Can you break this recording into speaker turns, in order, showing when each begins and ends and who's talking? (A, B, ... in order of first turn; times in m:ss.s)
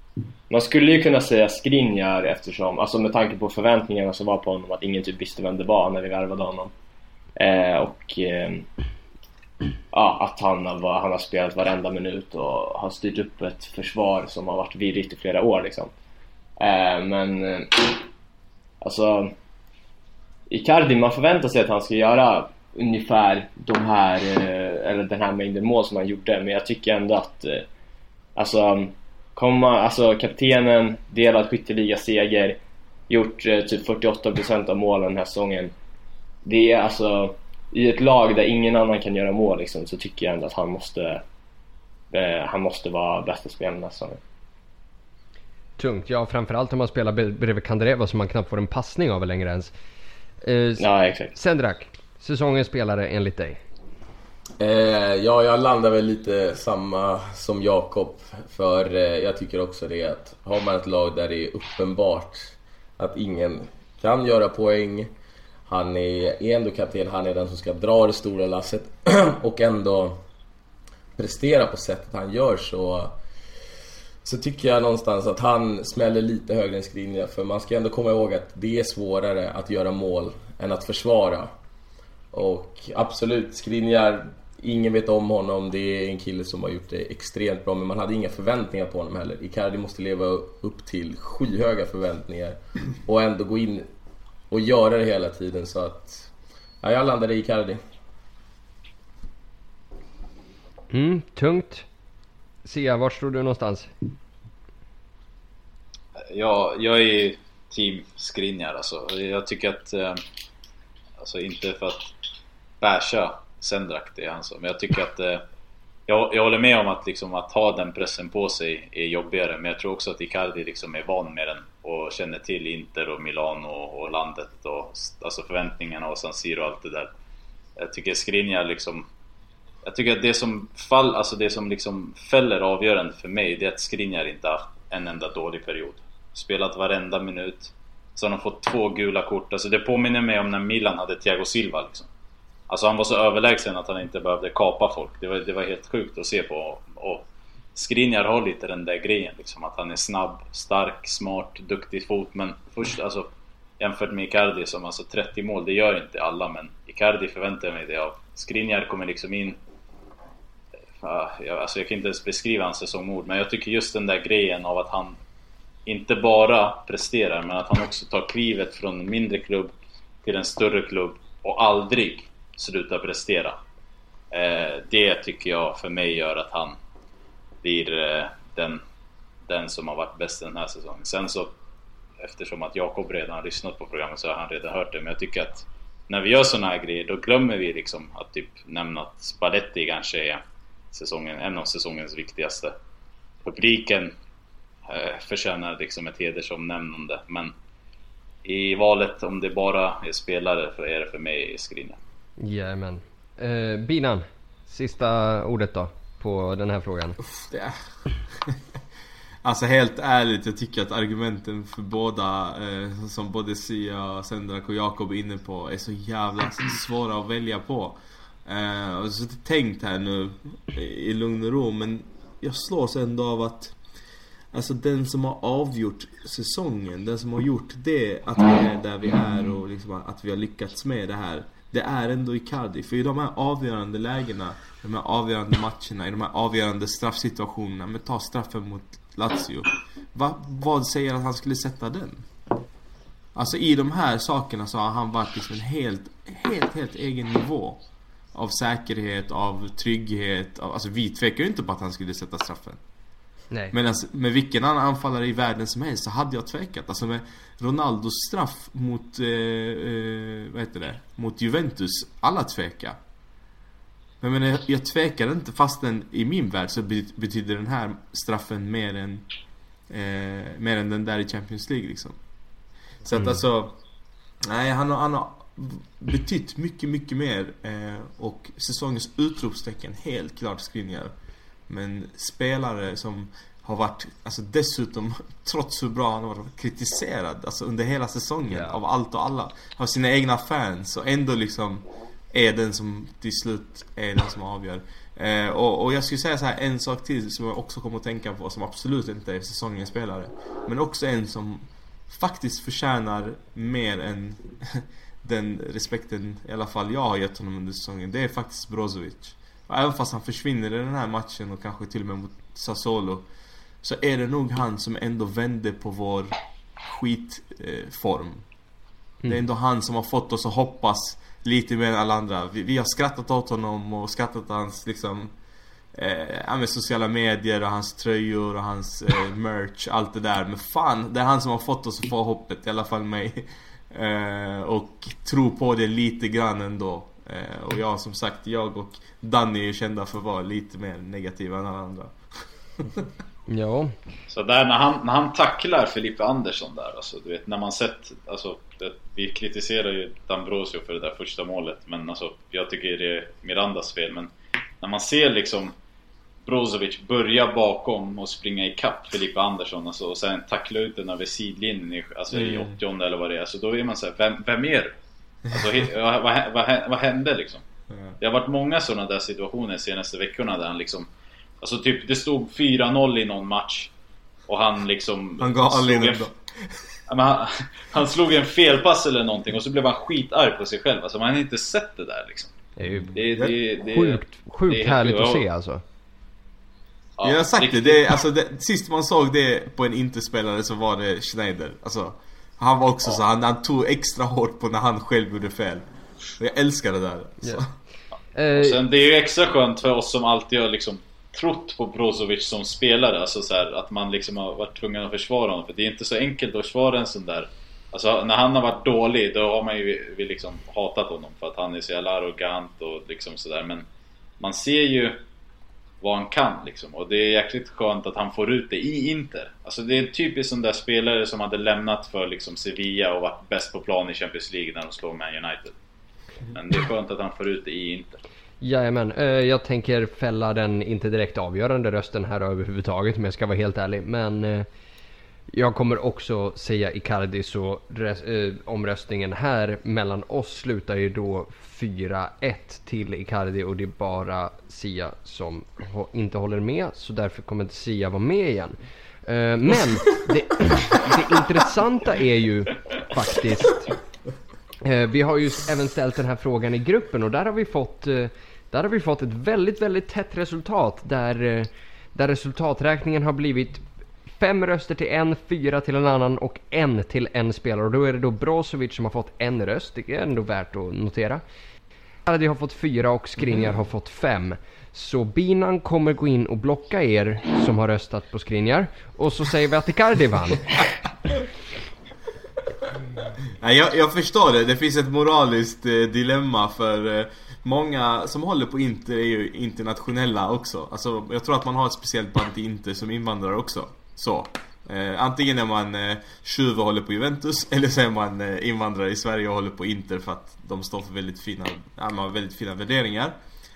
0:00.5-0:06.7 A
0:07.4-0:08.6 A
0:09.9-0:15.9 A
0:16.6-0:18.0 A
0:18.8-0:19.3 A
0:20.5-0:27.6 A
0:28.4-0:32.6 A
0:33.1-0:35.7 A
0:36.4-0:41.2 A
0:42.1-0:44.2 A
0:45.8-0:49.7 B
0:50.4-0:53.6 B
0:50.8-0:51.3 A
0:54.6-1:05.1 C
1:05.7-1:10.2 C
1:11.2-1:13.2 C
1:14.2-1:21.5 C
1:22.3-1:33.9 C
1:34.5-1:36.3 C
1:36.8-1:37.8 C
1:40.9-1:41.8 B
1:42.6-1:43.9 B
1:46.2-1:50.2 D
1:51.2-1:52.1 D
1:52.8-1:55.4 D
1:56.1-2:07.1 D
2:07.8-2:09.1 D
2:09.8-2:22.1 D
2:22.7-2:39.6 D
2:41.0-2:45.2 D
2:45.8-2:49.7 D
2:50.2-2:53.6 D
2:54.3-2:56.8 D
2:57.6-2:58.8 D
2:59.5-3:01.5 D
3:02.2-3:10.4 D
3:10.9-3:12.7 D
3:13.4-3:14.1 D
3:14.9-3:17.5 D
3:18.4-3:22.0 D
3:22.4-3:27.2 B
3:27.5-3:27.8 E
3:29.4-3:43.8 E
3:44.5-4:02.3 E
4:03.3-4:07.8 E
4:08.3-4:12.8 E
4:13.7-4:23.0 E
4:24.2-4:29.3 E
4:29.9-4:32.2 E
4:33.0-4:33.8 E
4:33.1-4:33.4 B
4:34.4-4:41.1 E
4:41.7-5:13.3 E
4:48.4-4:48.8 B
5:13.8-5:18.4 E
5:19.3-5:25.3 E
5:25.9-5:42.2 E
5:43.5-5:43.9 B
5:44.3-5:55.7 D
5:56.4-6:04.9 D
6:02.3-6:02.7 E
6:05.5-6:07.6 D
6:08.2-6:11.1 D
6:11.6-6:13.9 D
6:14.5-6:16.2 D
6:15.4-6:16.8 E
6:17.1-6:25.4 D
6:22.8-6:23.2 B
6:22.8-6:23.5 E
6:23.9-6:25.8 B
6:27.2-6:28.2 D
6:27.2-6:35.8 E
6:36.4-6:37.7 E
6:38.3-6:38.8 B
6:38.6-6:53.8 D
6:54.4-6:55.2 D
6:56.0-7:05.7 D
7:06.5-7:08.2 D
7:08.6-7:14.7 B
7:15.5-7:33.9 B
7:34.8-7:43.8 B
7:44.4-7:51.4 B
7:52.3-8:00.8 B
8:03.6-8:23.4 E